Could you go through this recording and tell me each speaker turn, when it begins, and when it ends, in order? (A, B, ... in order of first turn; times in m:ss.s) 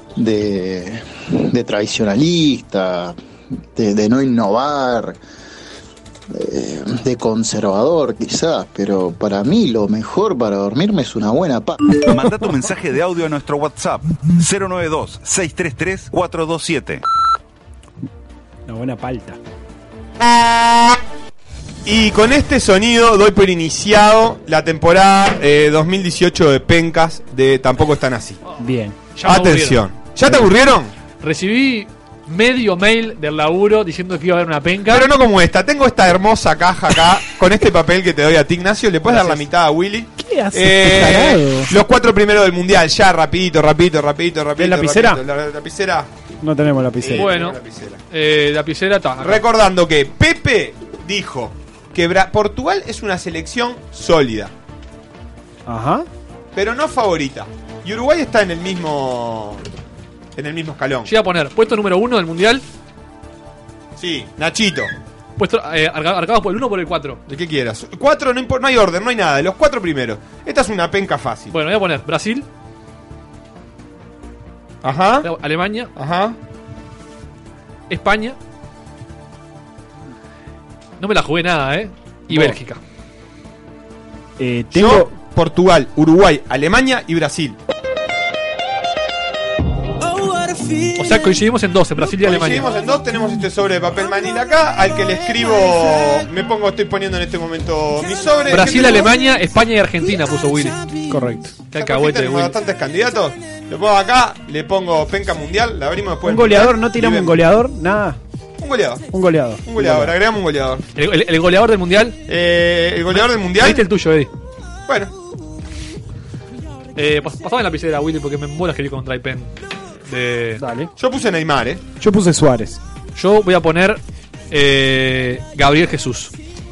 0:00.2-0:03.2 A
0:03.7-0:05.2 A
0:06.3-0:11.8 A
0:12.1-0:17.0 B
0:18.7-0:19.4 C
0:20.3-0:20.9 D
0:21.8-0:28.4 D
0:28.6-0:29.0 C
0:29.1-0:29.8 E
0:29.2-0:30.9 D
0:31.2-0:35.0 E
0:34.9-0:46.1 D
0:39.1-0:39.4 E
0:40.2-0:41.7 C
0:44.6-0:45.2 C
0:46.4-0:47.3 C
0:47.0-0:48.0 D
0:47.2-0:47.6 E
0:48.1-0:49.4 E
0:49.2-0:54.5 D
0:55.7-0:56.1 C
0:56.5-0:59.6 D
1:00.4-1:01.1 D
1:01.1-1:02.6 E
1:04.0-1:04.9 D
1:05.4-1:07.2 E
1:07.3-1:11.5 D
1:11.5-1:12.5 E
1:14.8-1:15.3 D
1:15.2-1:15.9 E
1:16.0-1:16.4 D
1:17.9-1:18.4 E
1:21.0-1:22.8 E
1:22.3-1:22.6 C
1:24.4-1:25.1 C
1:24.7-1:27.6 D
1:30.9-1:32.7 E
1:32.2-1:39.1 D
1:38.5-1:40.8 E
1:41.1-1:41.6 C
1:41.7-1:42.5 E
1:41.7-1:47.4 D
1:46.2-1:48.2 C
1:48.6-1:49.0 D
1:49.1-1:50.2 C
1:49.6-1:50.8 D
1:51.0-1:52.2 E
1:52.3-1:53.8 D
1:53.1-1:54.3 E
1:54.9-1:55.1 D
1:57.0-1:59.5 E
2:00.1-2:00.6 E
2:00.6-2:00.9 C
2:01.0-2:01.8 D
2:02.0-2:02.8 C
2:03.2-2:06.3 E